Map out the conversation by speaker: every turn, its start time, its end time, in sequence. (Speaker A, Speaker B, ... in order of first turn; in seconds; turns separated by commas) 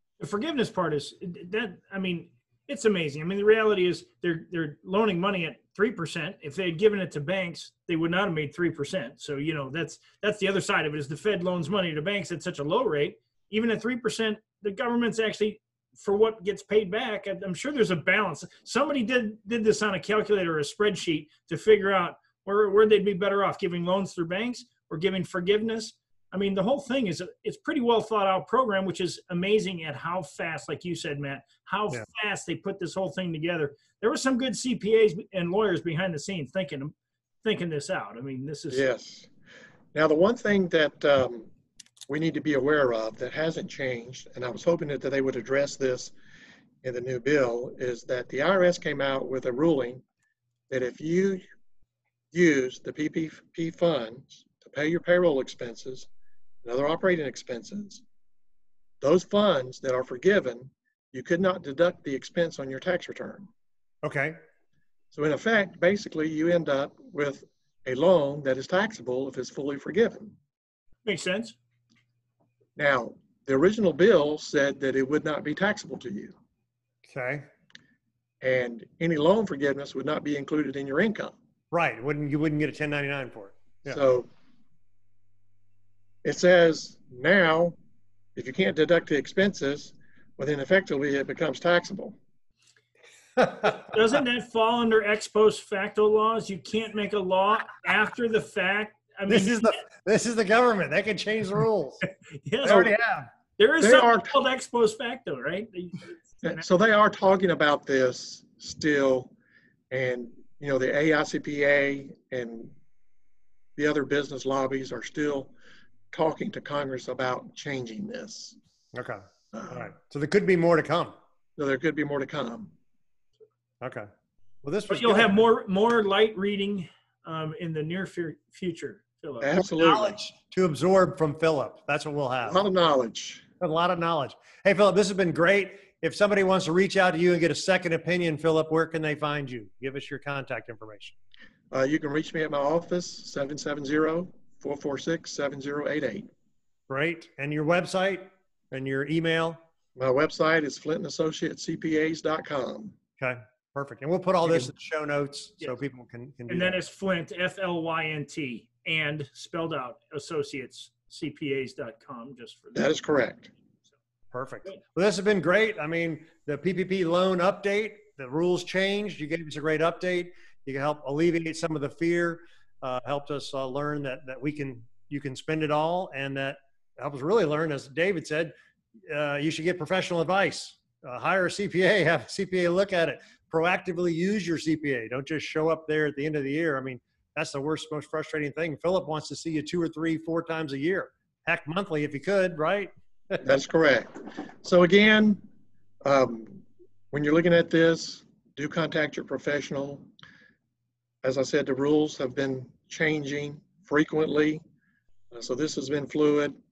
Speaker A: 0.2-38.8, Speaker B: 38.7-39.3, Speaker B: 40.0-41.5, Speaker B: 42.1-46.1, Speaker B: 46.8-50.0, Speaker B: 50.7-51.4, Speaker B: 52.3-56.1, Speaker B: 56.6-58.0, Speaker B: 59.0-63.5, Speaker C: 64.0-64.4, Speaker B: 65.1-70.4, Speaker A: 71.0-71.6, Speaker B: 72.8-76.4, Speaker C: 77.1-77.5, Speaker B: 78.4-81.3, Speaker C: 81.7-84.0, Speaker B: 83.9-84.3, Speaker B: 86.2-87.8, Speaker B: 88.4-92.2, Speaker C: 93.4-93.9, Speaker A: 93.7-99.8, Speaker C: 99.3-102.1, Speaker A: 102.3-102.9, Speaker C: 102.6-103.3, Speaker A: 103.6-106.6, Speaker B: 103.8-104.4, Speaker B: 106.4-109.3, Speaker B: 109.9-112.7, Speaker B: 113.8-115.5, Speaker B: 116.1-118.6, Speaker C: 118.9-121.2, Speaker B: 119.5-119.9, Speaker B: 121.6-122.7, Speaker C: 123.8-124.1, Speaker C: 124.6-125.4, Speaker A: 124.9-129.5, Speaker B: 129.4-130.2, Speaker C: 129.6-132.6, Speaker B: 132.4-133.5, Speaker C: 133.6-141.2, Speaker B: 141.7-146.3, Speaker C: 146.9-149.6, Speaker B: 150.0-153.0, Speaker C: 153.2-156.8, Speaker A: 156.5-162.9, Speaker B: 162.7-163.5, Speaker C: 164.3-178.5, Speaker C: 179.1-193.4, Speaker B: 193.4-194.1, Speaker B: 194.6-195.4, Speaker B: 196.0-200.1, Speaker B: 201.2-204.6, Speaker B: 205.3-206.6